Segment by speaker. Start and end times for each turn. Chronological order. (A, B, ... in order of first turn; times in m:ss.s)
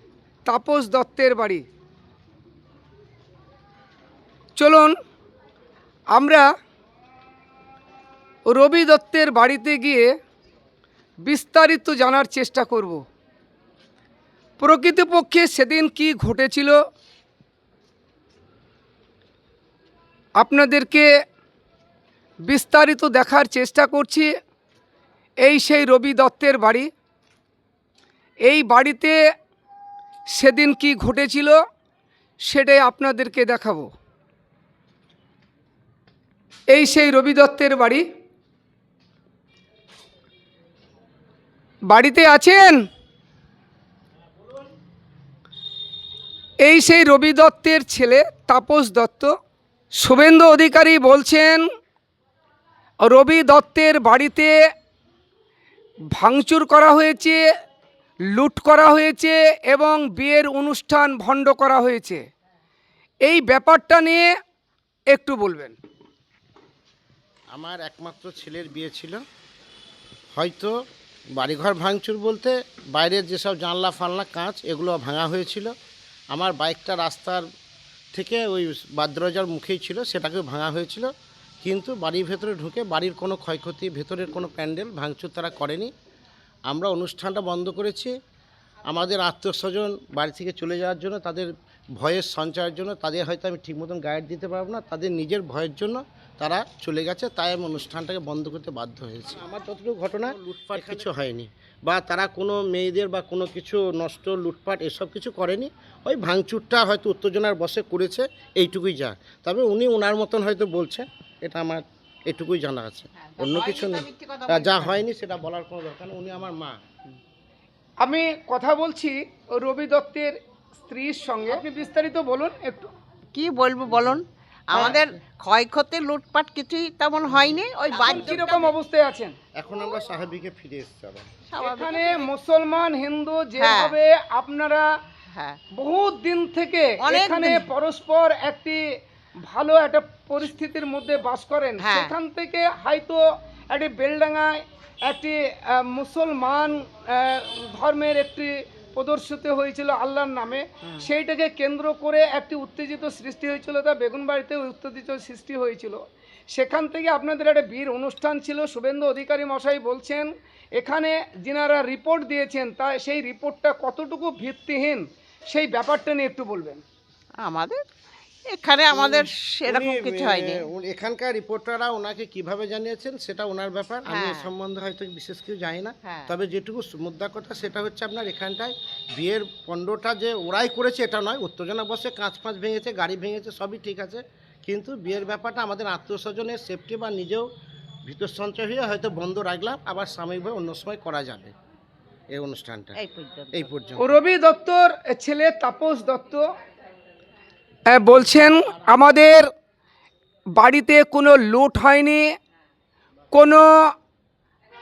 0:00.5-0:01.6 A
0:04.6-0:04.9 A
0:06.1-0:06.4 A
0:08.5-0:10.1 A
0:11.2-0:13.0 A
0:14.6-0:16.8 A
0:20.4-0:21.1 A
0:22.5-0:24.3 A
0:25.4-0:26.9 A
0:28.4-0:29.2 A
0:30.3-0:31.6 A
0:32.5-0:33.9 A
0:36.7-0:38.0 A
0:41.9-0:42.8 A
0:46.6-0:49.3 A
0:50.0-0:51.6 A
0:53.0-0:54.6 A
0:56.1-0:57.4 A
0:58.3-1:02.2 A
1:03.2-1:04.3 A
1:05.1-1:05.8 A
1:07.5-1:09.2 B
1:10.4-1:10.7 B
1:11.4-1:15.7 B
1:16.3-1:17.4 B
1:18.1-1:21.1 B
1:21.6-1:25.9 B
1:26.7-1:28.1 B
1:28.9-1:56.8 B
1:53.4-1:55.0 C
1:58.0-2:02.9 A
2:03.3-2:08.7 C
2:08.0-2:09.3 A
2:09.6-2:11.3 B
2:11.5-2:12.3 C
2:11.6-2:14.9 A
2:13.6-2:14.0 C
2:15.3-2:15.6 C
2:15.8-2:18.8 A
2:17.0-2:17.7 C
2:19.4-2:46.8 A
2:21.8-2:22.1 C
2:47.4-2:47.8 C
2:48.5-2:50.7 C
2:48.9-2:49.2 B
2:49.8-3:07.5 B
2:54.0-2:54.6 C
2:56.0-2:56.3 C
3:08.1-3:11.5 B
3:12.3-3:12.9 B
3:13.0-3:13.7 C
3:13.5-3:14.2 B
3:14.0-3:16.4 A
3:17.9-3:19.5 A
3:20.6-3:22.2 A
3:23.3-3:23.7 A